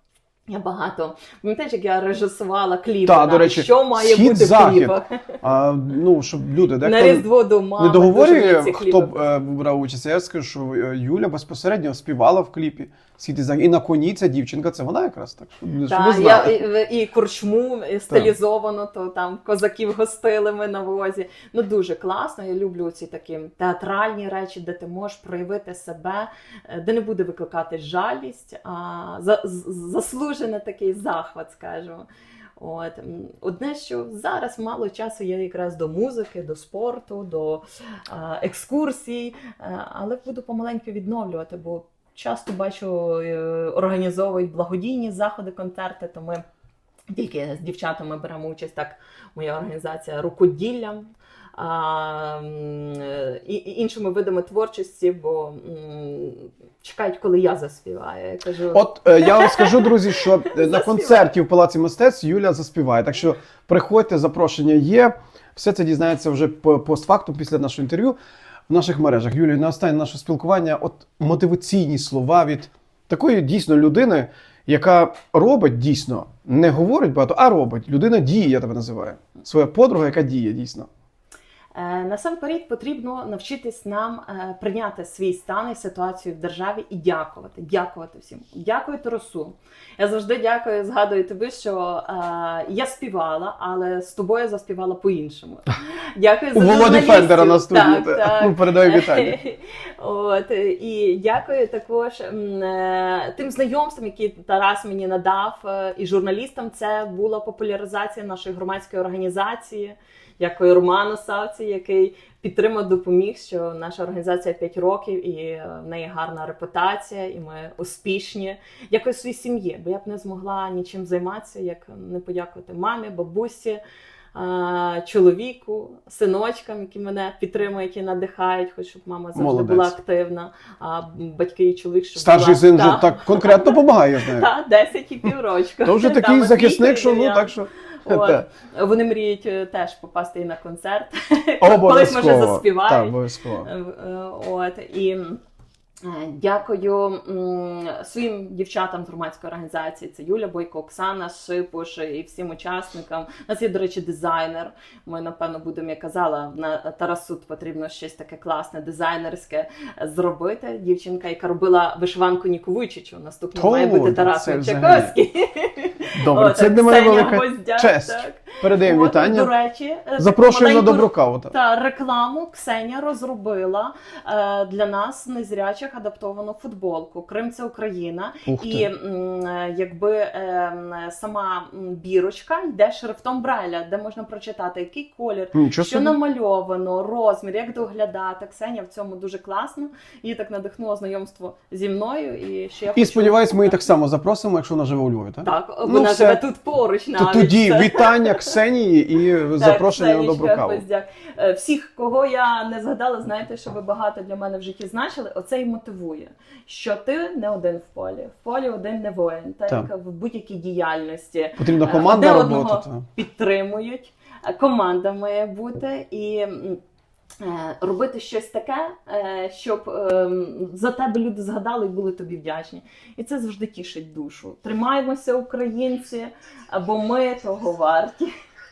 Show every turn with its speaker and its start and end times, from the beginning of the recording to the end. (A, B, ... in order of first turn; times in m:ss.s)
0:00.5-0:05.4 A
0:03.0-0:07.2 B
0:06.8-0:09.2 A
0:07.8-0:16.6 B
0:15.8-0:32.1 A
0:32.6-0:46.4 A
0:47.1-1:01.3 A
0:58.7-1:08.2 B
1:08.7-1:20.9 B
1:21.7-2:03.8 A
1:36.5-1:39.4 B
2:04.3-2:25.4 A
2:09.3-2:09.9 B
2:12.2-2:14.5 B
2:15.8-2:18.4 B
2:21.6-2:23.7 B
2:26.0-3:13.7 A
2:43.5-2:45.1 B
2:46.2-2:49.5 B
2:50.2-2:51.5 B
2:58.4-2:58.9 B
3:05.5-3:06.1 B
3:12.9-3:16.4 B
3:15.4-3:18.5 A
3:17.2-3:20.8 B
3:19.6-3:36.8 A
3:31.6-3:33.1 B
3:37.4-3:48.3 A